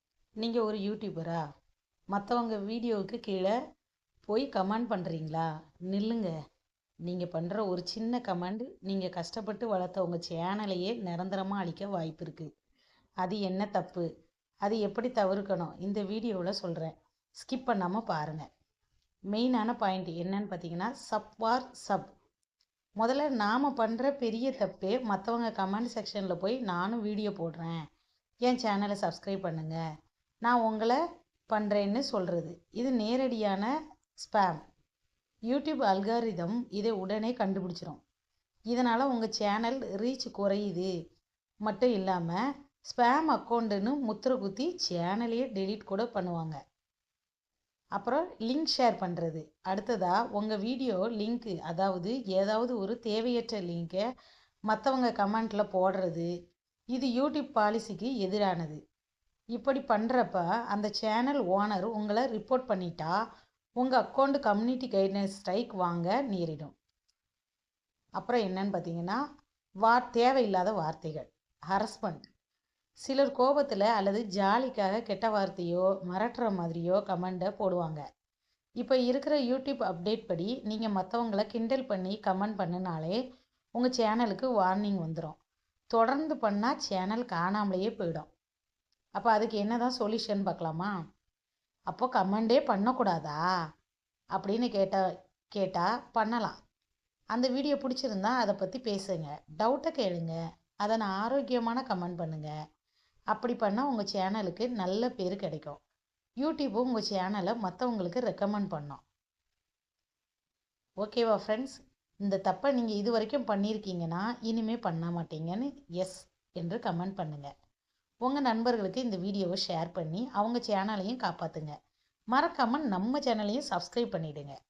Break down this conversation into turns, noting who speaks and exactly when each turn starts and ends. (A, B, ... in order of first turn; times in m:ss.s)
0:00.4-0:01.4 A
0:02.1-0:03.5 A
0:04.3-0:06.3 A
0:07.1-0:12.5 A
0:13.2-0:14.1 A
0:14.6-0:18.4 A
0:19.3-0:22.1 A
0:23.0-0:27.8 A
0:28.5-0:29.8 A
0:30.4-0:31.0 A
0:31.5-0:33.7 A
0:34.2-0:34.6 A
0:35.5-0:38.0 A
0:38.7-0:40.9 A
0:41.6-0:46.6 A
0:48.0-0:54.0 A
0:54.7-0:56.3 A
0:57.0-0:58.8 A
0:59.6-1:03.1 A
1:03.8-1:06.7 A
1:08.2-1:09.2 A
1:09.8-1:12.3 A
1:13.0-1:18.0 A
1:18.8-1:23.2 A
1:23.8-1:25.4 A
1:25.9-1:28.3 A
1:29.2-1:30.9 A
1:31.9-1:33.4 A
1:34.4-1:35.0 A
1:35.6-1:36.6 A
1:37.3-1:42.5 A
1:43.3-1:45.8 A
1:46.4-1:49.0 A
1:51.0-1:57.5 A
1:58.2-2:01.7 A
2:02.3-2:04.5 A